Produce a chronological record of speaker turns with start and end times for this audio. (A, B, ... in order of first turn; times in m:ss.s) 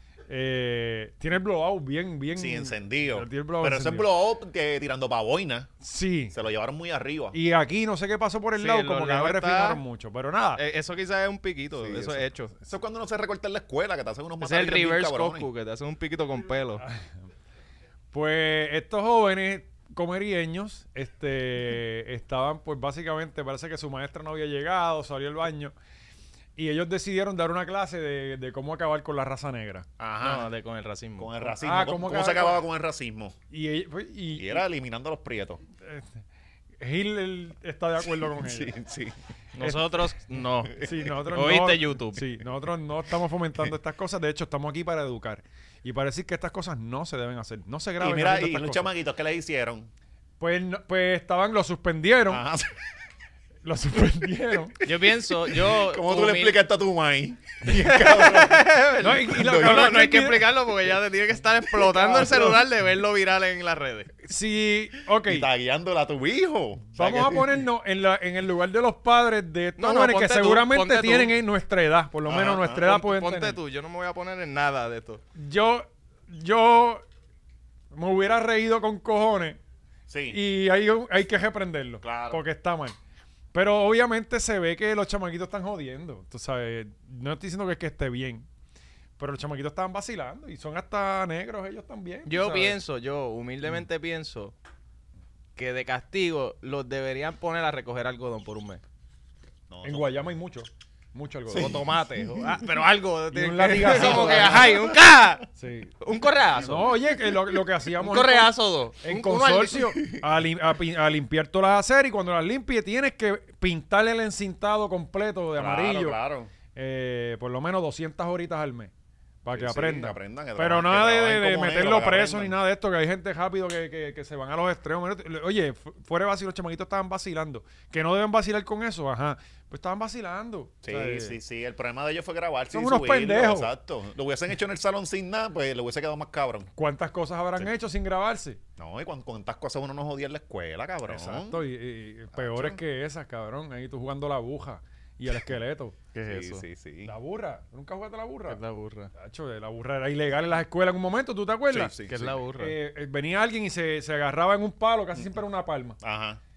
0:00.3-0:04.1 A
0:02.4-0:05.7 B
0:05.8-0:06.4 A
0:06.3-0:07.4 B
0:07.3-0:10.6 A
0:08.6-0:09.8 C
0:10.6-0:12.5 C
0:11.8-0:15.5 B
0:14.4-0:16.8 C
0:16.8-0:17.1 A
0:18.1-0:25.7 A
0:26.6-0:29.9 A
0:30.0-0:30.5 B
0:30.2-0:31.4 C
0:31.2-0:33.4 B
0:31.5-0:32.6 A
0:33.5-0:34.6 A
0:34.4-0:35.6 B
0:35.8-0:36.2 A
0:36.8-0:38.7 A
0:38.1-0:39.2 B
0:39.6-0:40.8 C
0:39.6-0:39.9 A
0:40.8-0:41.1 B
0:40.8-0:48.9 A
0:41.3-0:42.2 C
0:48.0-0:49.9 B
0:50.4-0:52.4 A
0:52.3-0:52.8 B
0:53.6-0:54.8 A
0:54.8-0:56.6 C
0:55.4-0:58.7 B
0:57.7-1:04.1 C
0:59.0-1:00.5 A
0:59.2-1:00.0 B
1:01.8-1:02.6 B
1:02.0-1:02.5 A
1:04.2-1:05.5 A
1:05.2-1:07.6 B
1:06.9-1:13.6 A
1:09.8-1:11.3 C
1:12.3-1:12.9 B
1:12.7-1:15.2 C
1:15.4-1:17.0 A
1:17.9-1:19.6 A
1:20.1-1:20.4 B
1:20.3-1:23.0 A
1:22.0-1:22.4 B
1:23.5-1:28.5 A
1:29.2-1:32.8 A
1:32.3-1:34.5 C
1:35.6-1:38.8 C
1:39.7-1:40.2 B
1:39.8-1:41.8 A
1:41.5-1:41.8 B
1:41.5-1:45.5 C
1:43.3-1:44.8 A
1:43.9-1:44.9 B
1:45.6-1:45.9 A
1:46.0-1:46.9 C
1:46.6-1:56.2 A
1:48.0-1:49.9 C
1:55.6-1:56.5 B
1:56.7-1:58.9 A
1:59.4-2:11.4 A
1:59.5-2:02.6 B
2:10.8-2:16.7 B
2:12.7-2:13.7 A
2:16.8-2:18.6 A
2:18.8-2:21.6 B
2:21.1-2:26.0 A
2:22.3-2:22.8 B
2:26.1-2:26.6 C
2:26.3-2:27.1 B
2:27.0-2:28.6 A
2:28.5-2:29.1 C
2:29.2-2:31.9 A
2:31.7-2:32.4 B
2:32.1-2:32.8 C
2:32.6-2:36.0 A
2:36.0-2:36.4 B